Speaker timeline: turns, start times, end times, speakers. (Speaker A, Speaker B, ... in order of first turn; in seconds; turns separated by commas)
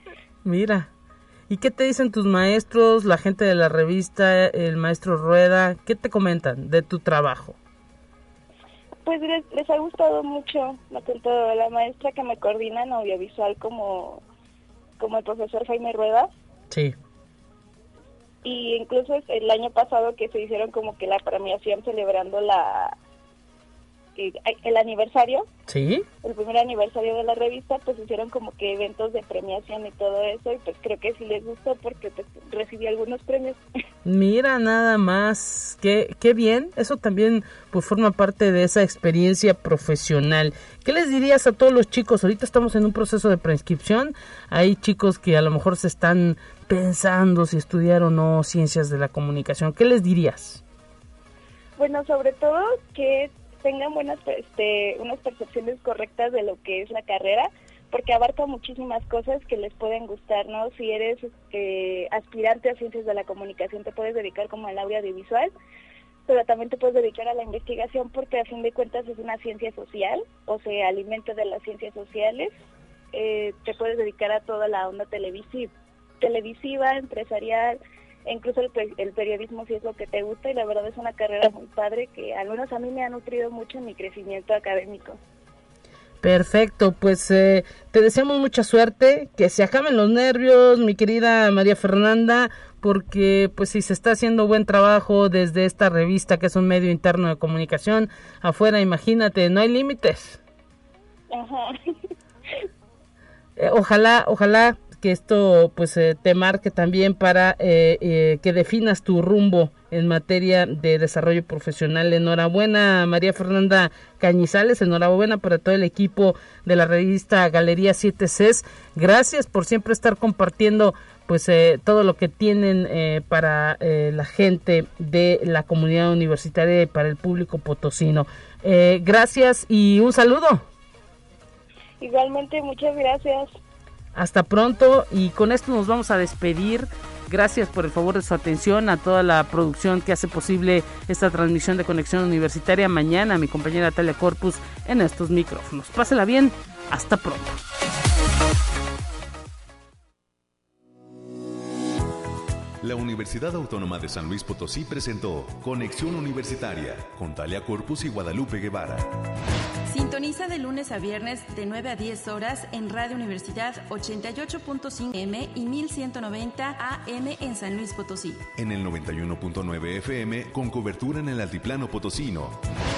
Speaker A: 0.4-0.9, Speaker A: 1.5-7.5, Speaker B: 9.0-14.2, Speaker B: 15.0-16.3, Speaker B: 18.4-22.9, Speaker B: 24.2-25.5, Speaker A: 25.7-26.0, Speaker B: 26.2-33.6, Speaker A: 34.0-50.6, Speaker B: 51.8-65.5, Speaker B: 66.3-72.5, Speaker B: 73.1-75.7, Speaker B: 76.2-85.2, Speaker A: 86.2-100.4, Speaker B: 101.3-101.7, Speaker A: 103.6-130.6, Speaker B: 132.0-133.4, Speaker A: 134.1-147.6, Speaker C: 152.8-159.1, Speaker D: 159.9-168.4, Speaker C: 168.5-172.6